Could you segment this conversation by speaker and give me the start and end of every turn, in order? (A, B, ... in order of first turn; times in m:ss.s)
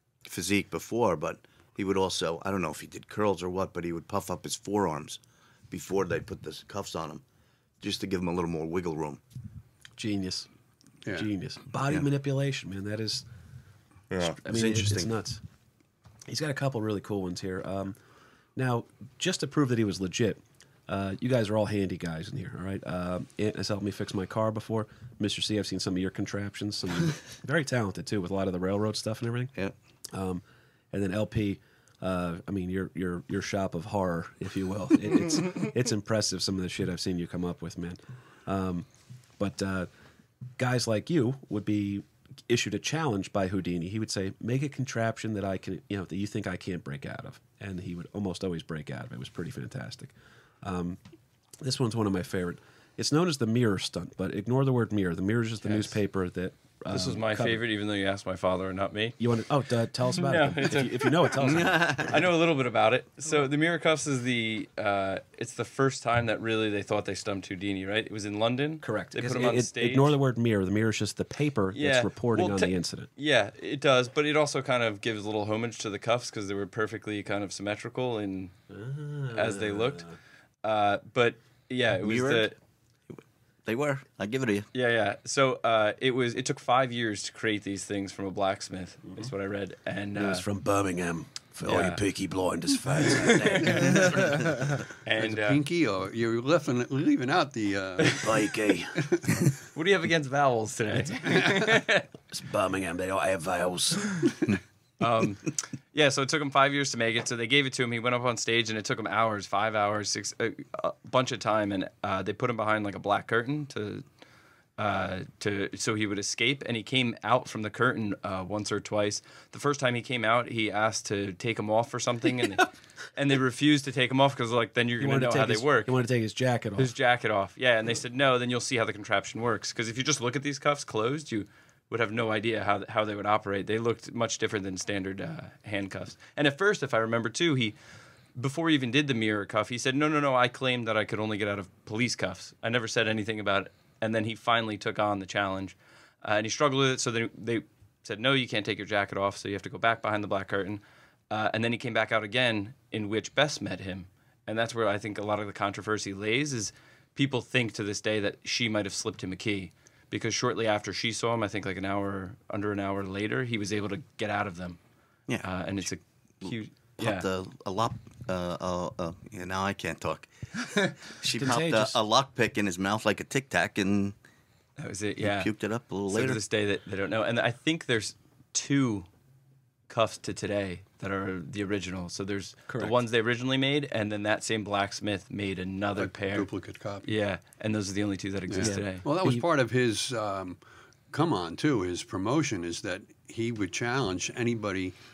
0:00.2-0:07.2 A
0:07.8-0:09.2 A
0:10.0-0:10.5 B
0:11.1-0:13.2 B
0:14.1-0:15.1 A
0:14.2-0:15.4 B
0:16.3-0:18.0 B
0:18.6-0:29.5 B
0:30.1-0:38.9 B
0:39.4-0:39.9 B
0:40.6-0:51.0 B
0:51.6-0:57.6 B
0:55.6-0:56.0 C
0:56.9-0:59.2 C
0:59.2-1:02.1 B
1:00.2-1:10.2 C
1:01.5-1:02.2 A
1:08.8-1:13.1 B
1:11.7-1:18.5 C
1:18.7-1:20.2 B
1:19.3-1:20.1 C
1:20.6-1:22.6 C
1:22.0-1:22.5 A
1:23.1-1:24.7 A
1:24.7-1:30.4 C
1:30.2-1:34.3 B
1:31.7-1:32.0 C
1:33.1-1:34.4 C
1:35.0-1:35.6 C
1:35.2-1:38.3 D
1:38.2-1:39.0 B
1:39.7-1:42.0 C
1:42.3-1:44.2 B
1:45.0-1:54.0 C
1:54.8-2:05.9 C
2:05.0-2:06.9 B
2:06.8-2:17.8 C
2:18.4-2:44.8 C
2:45.4-2:47.3 C
2:46.4-2:54.2 A
2:51.4-2:52.0 B
2:54.8-2:55.5 C
2:55.2-2:56.4 A
2:56.1-2:59.1 C
2:59.9-3:06.5 C
3:02.7-3:03.0 B
3:06.0-3:07.1 D
3:07.0-3:09.0 C
3:08.5-3:10.6 D
3:08.6-3:09.4 B
3:11.1-3:15.0 D